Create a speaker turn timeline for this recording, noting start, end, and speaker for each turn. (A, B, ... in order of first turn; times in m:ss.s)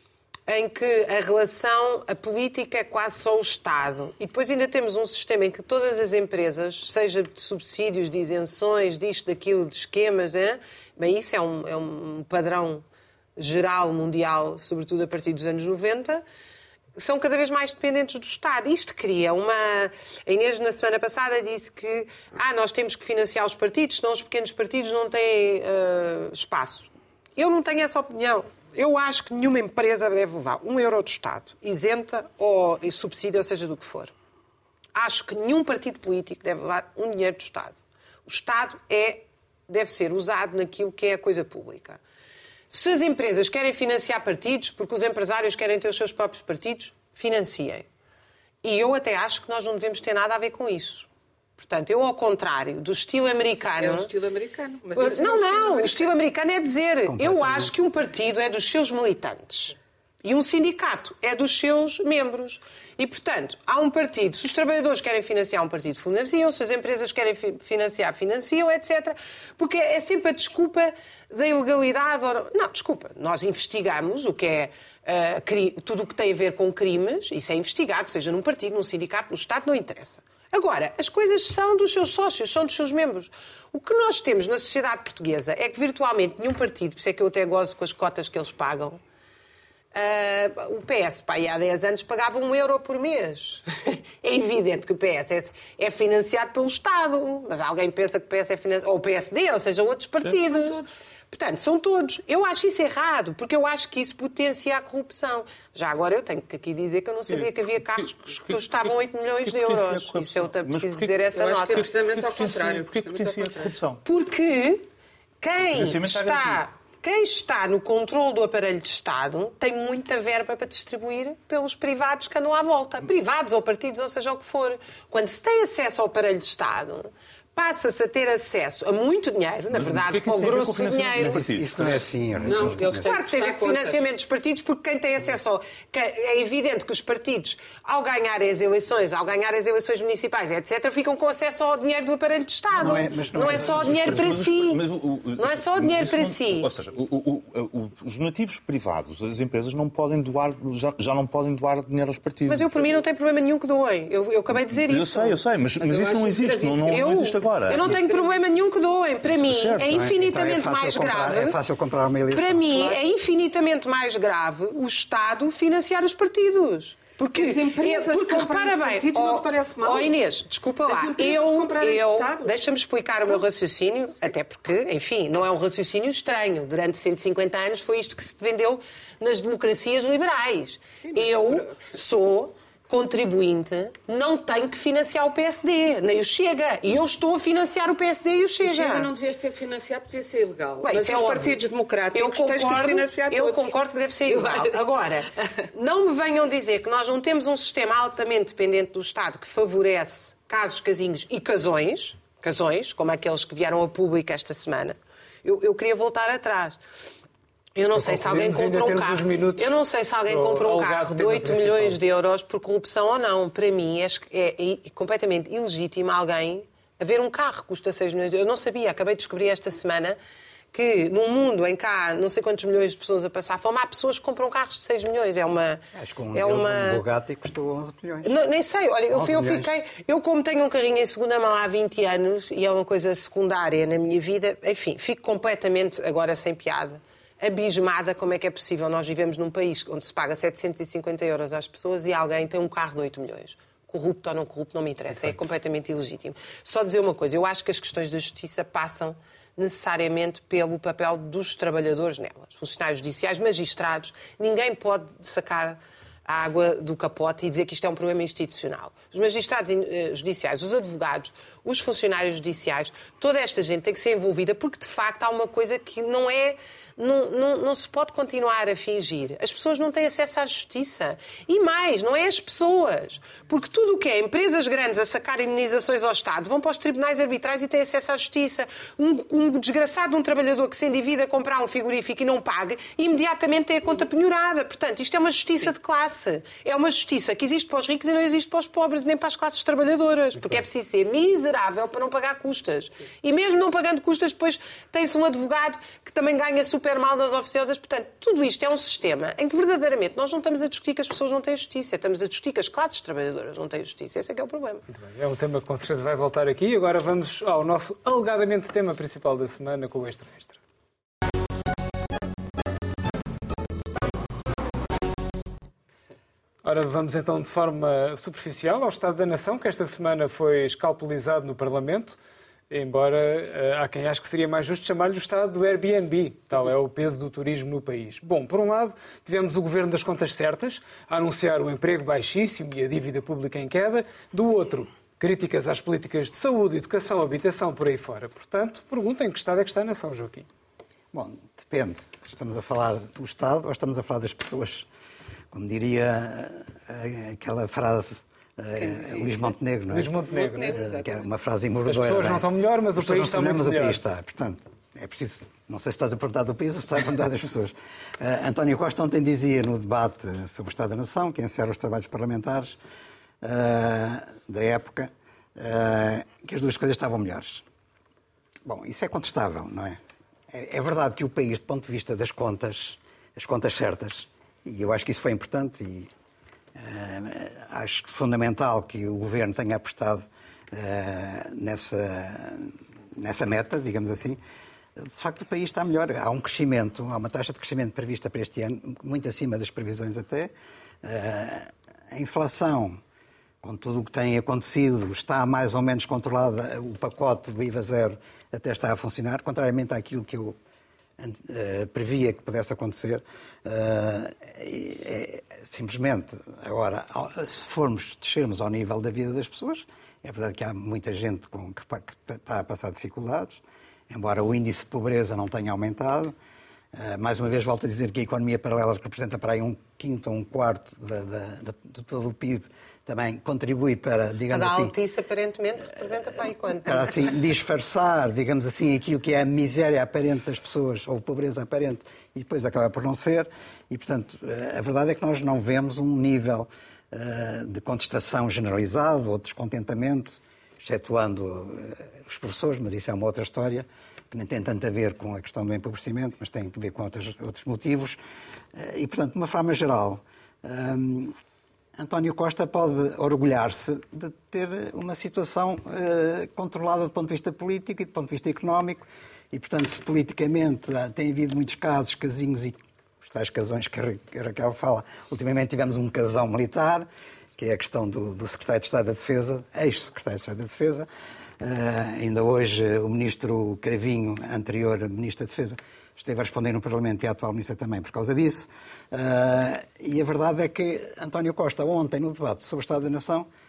0:00.5-0:12.8 A
0:13.4-0:16.2 A
0:17.0-0:34.1 A
0:35.0-0:42.0 A
0:42.7-0:47.9 A
0:48.6-0:54.1 A
0:53.8-0:56.2 B
0:55.0-1:29.0 A
0:57.1-0:57.7 C
1:29.9-1:51.9 A
1:40.2-1:40.9 D
1:47.3-1:54.0 D
1:51.4-1:53.7 B
1:54.0-1:54.9 A
1:55.4-2:11.5 A
1:55.6-1:56.6 D
2:09.7-2:12.1 D
2:11.2-2:13.1 C
2:12.4-2:14.0 B
2:12.9-2:24.8 A
2:22.7-2:24.4 C
2:23.4-2:32.8 D
2:25.4-2:26.7 A
2:32.5-2:41.6 A
2:34.5-2:38.0 D
2:36.4-2:36.8 B
2:37.7-2:38.4 B
2:39.2-2:40.1 D
2:39.8-2:42.9 C
2:42.3-3:09.1 A
2:47.3-2:50.1 B
2:50.9-2:52.5 B
3:01.1-3:01.8 B
3:08.6-3:15.6 B
3:10.8-3:11.6 A
3:12.1-3:26.8 A
3:27.8-3:40.2 A
3:28.0-3:32.0 E
3:40.7-3:47.0 A
3:45.9-3:48.3 C
3:48.2-5:04.8 A
3:49.1-3:49.7 C
5:04.9-5:10.6 E
5:16.6-5:22.2 E
5:22.7-5:40.5 E
5:41.1-5:44.9 C
5:45.5-5:50.2 C
5:48.8-5:49.5 B
5:49.9-5:50.8 E
5:50.3-5:51.2 B
5:50.7-6:02.8 C
5:51.9-5:54.0 E
6:03.4-6:07.6 C
6:08.6-6:10.0 C
6:10.5-6:16.1 C
6:16.8-6:24.4 C
6:25.0-6:30.5 C
6:31.0-6:33.0 C
6:33.6-6:40.6 C
6:41.2-6:56.4 C
6:56.9-7:04.9 C
7:04.5-7:07.3 A
7:06.8-7:28.2 C
7:28.7-7:31.4 C
7:32.0-7:51.1 C
7:51.6-8:03.5 C